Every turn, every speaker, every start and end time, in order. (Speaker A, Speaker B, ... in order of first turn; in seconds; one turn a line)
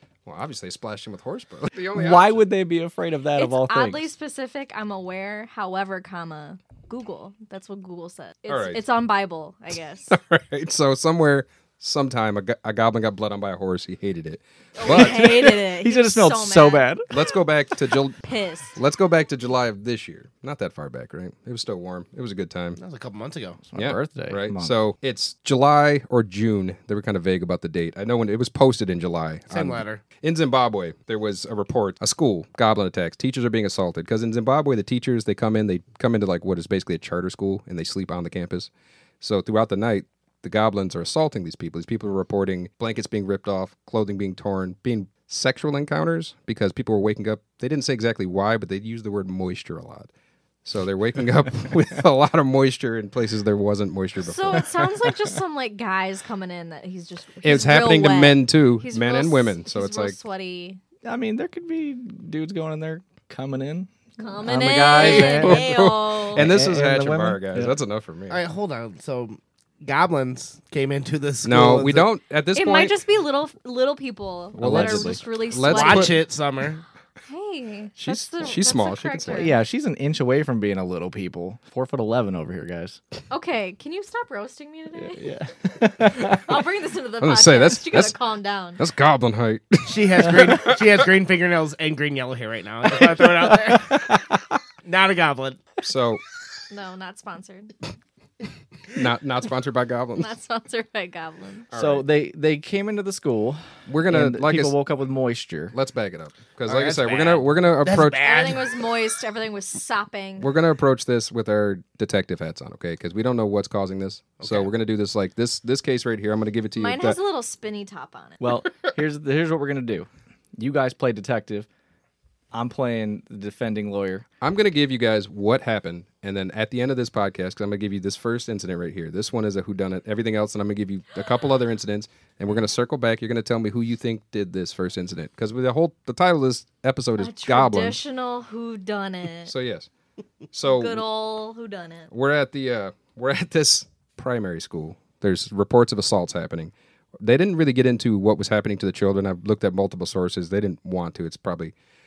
Speaker A: 0.3-2.4
Speaker B: 1.9-4.0
Speaker C: 3.4-10.2
Speaker A: 8.5-8.8
Speaker A: 10.1-15.3
Speaker C: 14.8-16.9
Speaker B: 14.8-17.1
Speaker A: 17.1-18.2
Speaker C: 18.2-18.8
Speaker A: 18.8-22.8
Speaker D: 22.8-23.6
Speaker B: 23.7-24.8
Speaker A: 23.8-38.7
Speaker D: 29.5-30.0
Speaker A: 39.2-50.1
Speaker A: 50.6-54.9
Speaker C: 54.2-60.8
Speaker A: 57.4-60.2
Speaker B: 61.0-63.9
Speaker C: 64.2-66.4
Speaker B: 64.4-65.8
Speaker A: 64.9-68.4
Speaker B: 66.3-67.7
Speaker D: 68.3-72.1
Speaker A: 71.4-73.0
Speaker C: 72.5-76.2
Speaker A: 74.6-76.2
Speaker B: 74.6-75.2
Speaker D: 75.6-76.8
Speaker C: 77.3-79.6
Speaker A: 78.0-79.5
Speaker B: 79.3-83.0
Speaker C: 83.3-85.3
Speaker B: 85.0-86.5
Speaker C: 86.1-88.8
Speaker A: 87.2-88.2
Speaker A: 88.8-90.8
Speaker D: 89.8-94.2
Speaker B: 93.1-94.5
Speaker D: 94.8-95.6
Speaker A: 95.8-96.2
Speaker C: 96.7-97.7
Speaker A: 98.9-100.3
Speaker C: 100.2-101.7
Speaker A: 101.7-102.0
Speaker B: 101.7-105.7
Speaker A: 103.9-104.8
Speaker A: 105.7-108.3
Speaker D: 106.7-108.7
Speaker C: 108.2-110.5
Speaker A: 110.4-117.2
Speaker D: 114.4-114.7
Speaker C: 116.8-118.4
Speaker B: 118.4-121.7
Speaker B: 122.5-124.2
Speaker A: 124.4-138.0
Speaker C: 137.2-139.5
Speaker A: 139.4-139.9
Speaker A: 140.5-141.1
Speaker C: 140.6-142.1
Speaker A: 142.1-151.7